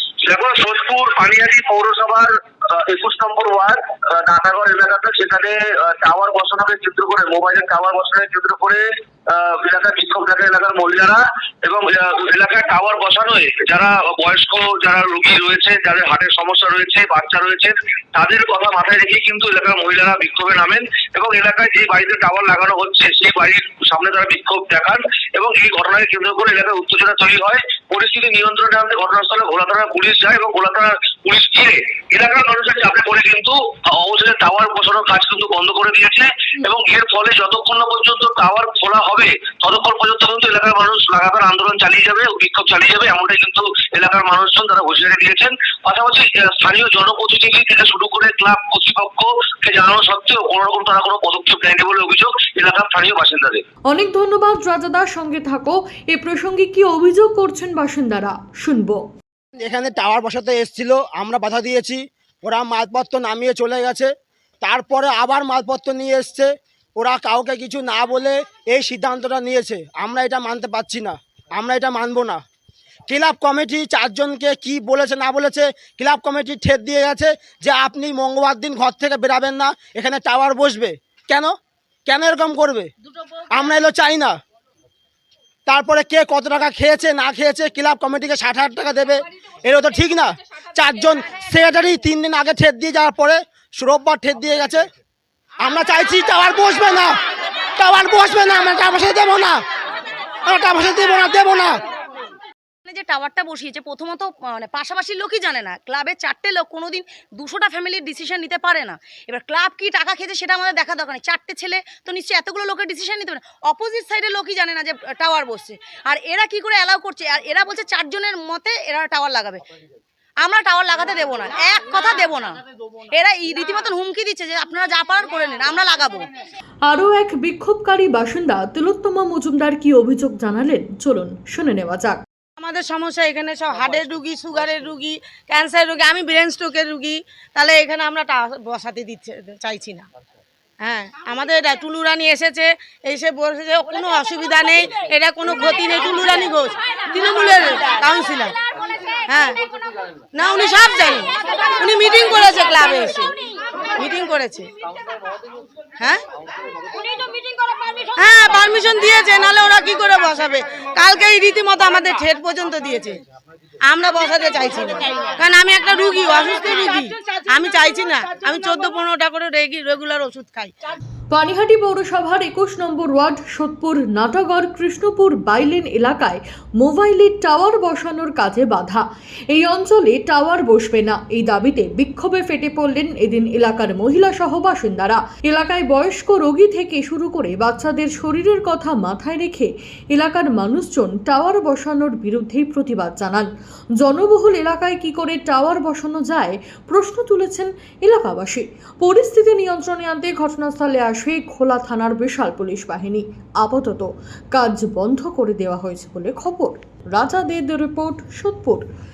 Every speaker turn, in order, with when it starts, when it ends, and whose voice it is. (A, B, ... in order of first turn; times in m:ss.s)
0:00.2-0:53.6 A
0:53.9-0:59.0 B
0:59.6-1:04.1 C
1:04.6-1:12.4 C
1:13.1-1:21.5 C
1:22.1-1:22.9 C
1:23.5-1:24.4 C
1:25.7-1:34.8 C
1:35.6-1:37.1 C
1:37.8-1:39.6 C
1:40.5-1:41.8 C
1:42.9-1:59.6 D
2:00.4-2:06.3 D
2:06.8-2:12.2 B
2:12.6-2:20.1 E
2:13.1-2:13.6 D
2:15.7-2:16.0 D
2:20.8-2:28.5 E
2:30.3-2:33.3 E
2:34.0-2:34.7 E
2:38.2-2:43.2 E
2:43.9-2:50.7 E
2:51.3-3:28.8 B